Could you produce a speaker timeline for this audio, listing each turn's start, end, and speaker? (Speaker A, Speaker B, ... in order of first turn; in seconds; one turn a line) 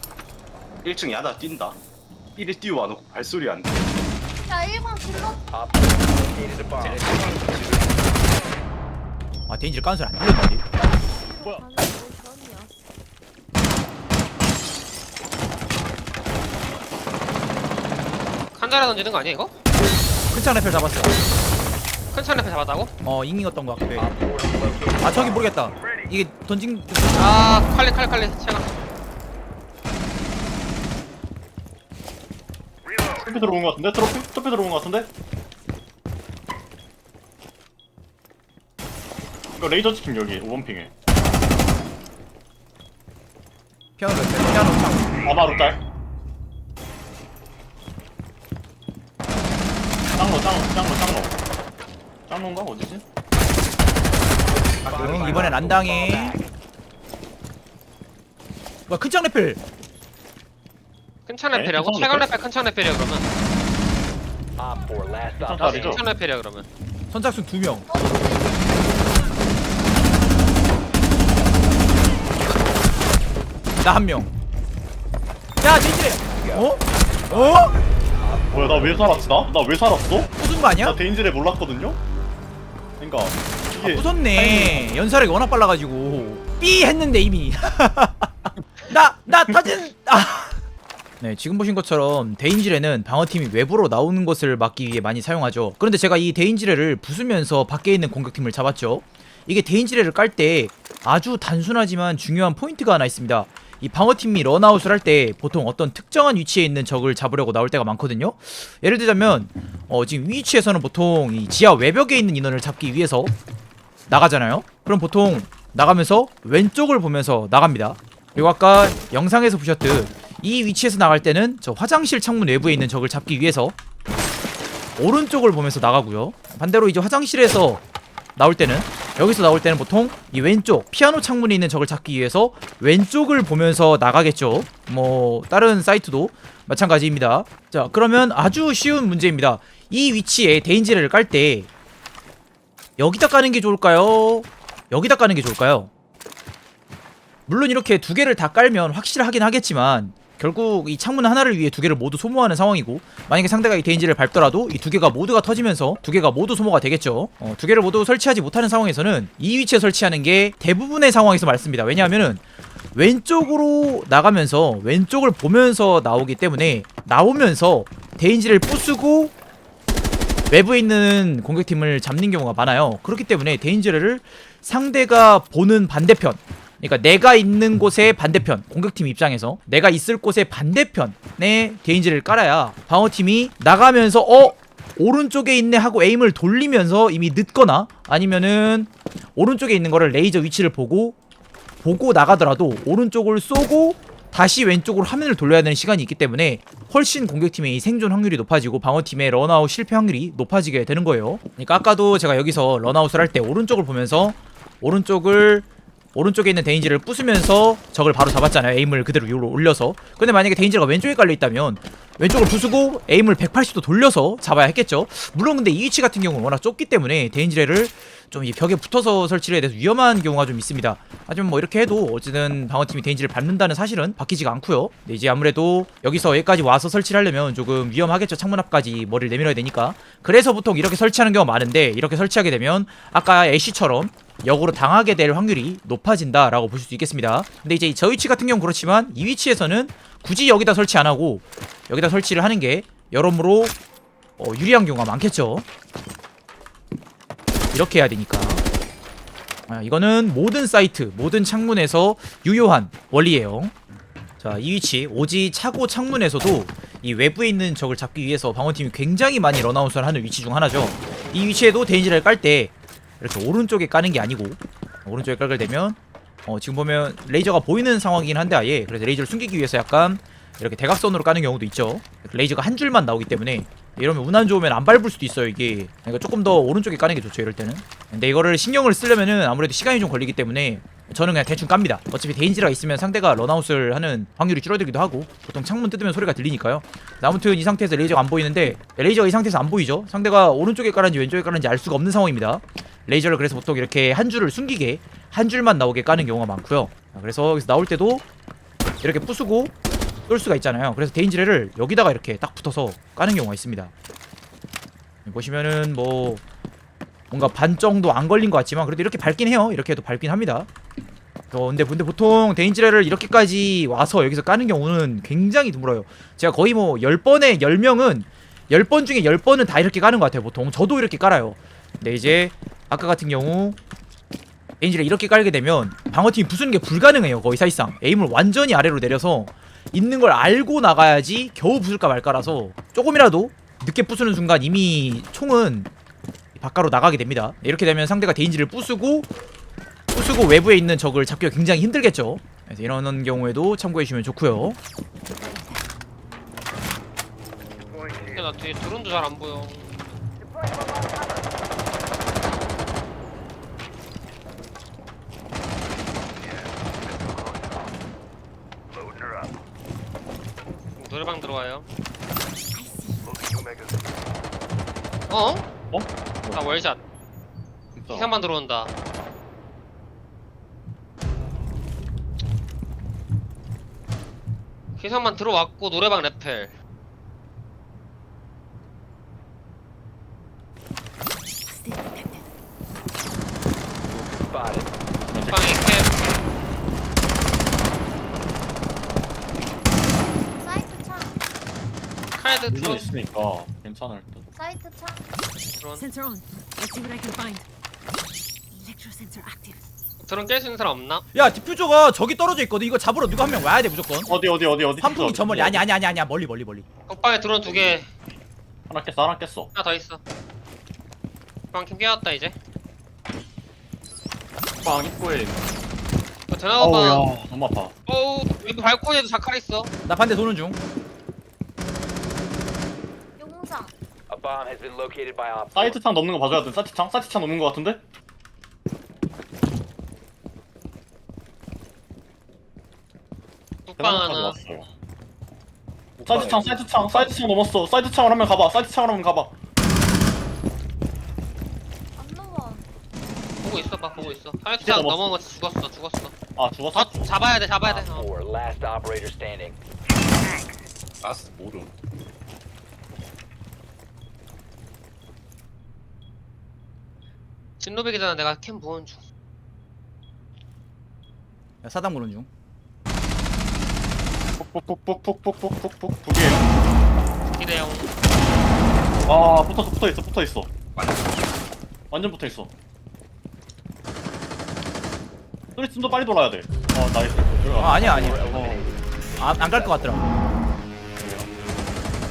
Speaker A: 0.8-1.8
Speaker A: 2.3-4.0
Speaker B: 4.5-5.4
Speaker C: 5.5-7.6
Speaker A: 6.8-8.1
Speaker D: 9.5-10.6
Speaker B: 10.8-12.7
Speaker E: 18.5-19.5
Speaker D: 20.3-21.2
Speaker E: 22.1-22.9
Speaker D: 23.0-24.1
Speaker C: 23.9-25.5
Speaker D: 25.0-27.4
Speaker E: 27.1-28.8
Speaker F: 33.2-35.1
Speaker F: 39.6-40.9
Speaker D: 44.0-45.2
Speaker F: 45.2-45.8
Speaker F: 50.1-51.4
Speaker F: 52.3-53.0
Speaker C: 54.8-56.4
Speaker D: 54.9-56.4
Speaker F: 55.0-55.5
Speaker A: 55.1-55.6
Speaker D: 58.9-59.6
Speaker E: 61.3-63.3
Speaker F: 61.5-62.3
Speaker C: 64.6-66.0
Speaker F: 65.4-66.0
Speaker E: 65.6-66.7
Speaker D: 67.1-67.9
Speaker B: 67.9-68.9
Speaker D: 73.8-74.3
Speaker D: 75.6-77.7
Speaker C: 76.4-76.7
Speaker C: 77.3-77.7
Speaker C: 78.2-79.4
Speaker F: 78.5-82.0
Speaker D: 80.3-81.0
Speaker F: 83.0-84.9
Speaker D: 83.8-90.6
Speaker D: 91.2-113.3
Speaker D: 114.1-123.8
Speaker D: 125.0-127.8
Speaker D: 128.3-141.7
Speaker D: 143.0-145.9
Speaker D: 147.5-169.3
Speaker D: 170.5-191.2
Speaker D: 191.8-243.8
Speaker D: 244.4-245.7
Speaker D: 247.7-248.6
Speaker D: 249.7-253.7
Speaker D: 254.4-298.2
Speaker D: 299.0-299.7
Speaker D: 300.3-303.9
Speaker D: 305.2-306.4
Speaker D: 307.3-310.7
Speaker D: 311.5-323.8
Speaker D: 324.8-335.9
Speaker D: 336.6-339.3
Speaker D: 340.1-344.8
Speaker G: 345.4-345.8
Speaker E: 348.2-349.9
Speaker E: 361.0-361.9
Speaker G: 362.7-363.3
Speaker E: 365.3-365.6
Speaker F: 365.9-366.6
Speaker E: 366.5-367.0
Speaker F: 367.9-368.3
Speaker E: 368.1-368.9
Speaker E: 375.0-376.7
Speaker G: 381.7-382.4
Speaker C: 384.2-384.9
Speaker F: 385.2-385.9
Speaker E: 385.3-386.3
Speaker B: 390.6-391.4
Speaker E: 392.3-393.1
Speaker F: 392.7-394.4
Speaker B: 394.5-395.2
Speaker E: 395.8-396.0
Speaker G: 395.9-397.6
Speaker G: 398.7-399.8
Speaker E: 400.2-401.2
Speaker D: 401.3-404.4
Speaker F: 404.3-405.8
Speaker D: 405.0-406.9
Speaker E: 407.1-408.1
Speaker F: 408.9-409.7
Speaker E: 409.7-410.2
Speaker E: 411.7-412.6
Speaker F: 414.8-415.6
Speaker E: 416.5-417.2
Speaker F: 416.8-417.9
Speaker E: 418.1-419.9
Speaker D: 420.0-420.8
Speaker B: 423.4-423.9
Speaker C: 424.3-425.9
Speaker F: 425.7-428.0
Speaker E: 433.9-434.6
Speaker F: 434.0-434.9
Speaker A: 436.2-437.3
Speaker F: 436.2-439.5
Speaker B: 442.2-442.8
Speaker E: 443.6-446.3
Speaker F: 444.8-445.3
Speaker F: 446.6-447.3
Speaker E: 446.9-448.3
Speaker C: 447.8-449.8
Speaker E: 457.8-459.2
Speaker D: 461.8-462.5
Speaker F: 464.6-466.6
Speaker E: 467.4-468.1
Speaker F: 469.3-470.7
Speaker F: 472.1-472.7
Speaker F: 475.8-478.9
Speaker D: 477.8-478.5
Speaker C: 478.1-479.0
Speaker D: 479.4-480.3
Speaker C: 479.6-479.9
Speaker F: 481.2-481.5